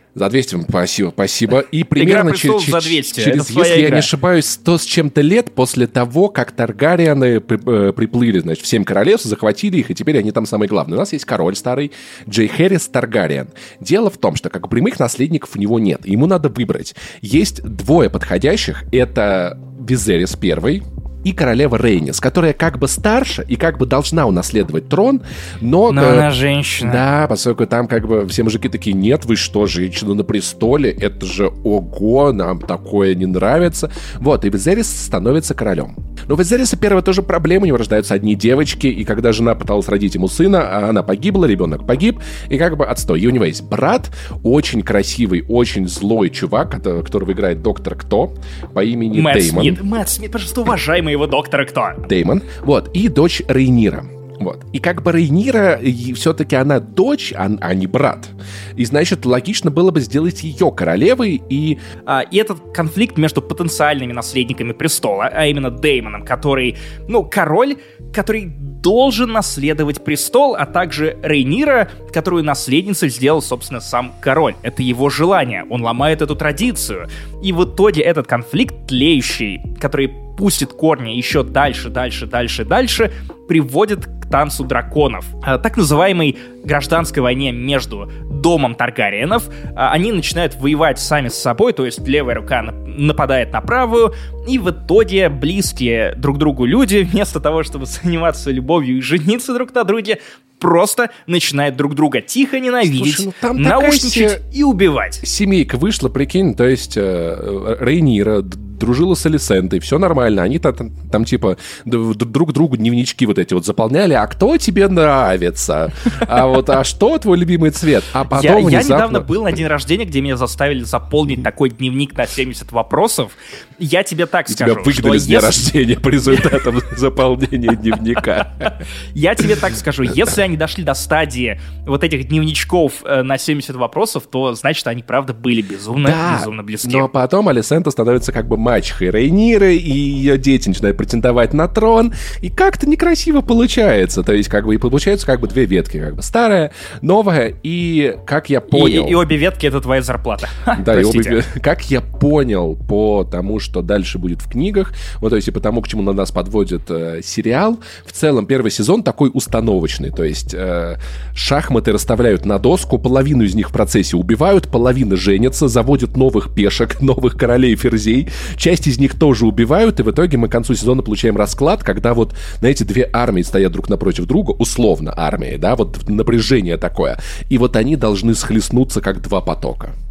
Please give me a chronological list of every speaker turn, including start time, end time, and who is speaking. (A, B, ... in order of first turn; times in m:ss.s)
0:00.2-0:26.3 A
0:02.0-0:04.1 B
0:25.9-0:27.0 B
0:26.8-0:49.8 A
0:49.1-0:52.1 B
0:52.1-1:01.8 A
1:02.1-1:45.2 B
1:42.8-1:44.4 A
1:45.2-1:59.3 A
1:58.3-2:05.6 B
2:04.5-2:08.8 A
2:09.1-2:17.1 B
2:10.1-2:10.3 A
2:16.0-2:29.2 A
2:28.7-2:31.4 B
2:30.8-2:59.9 A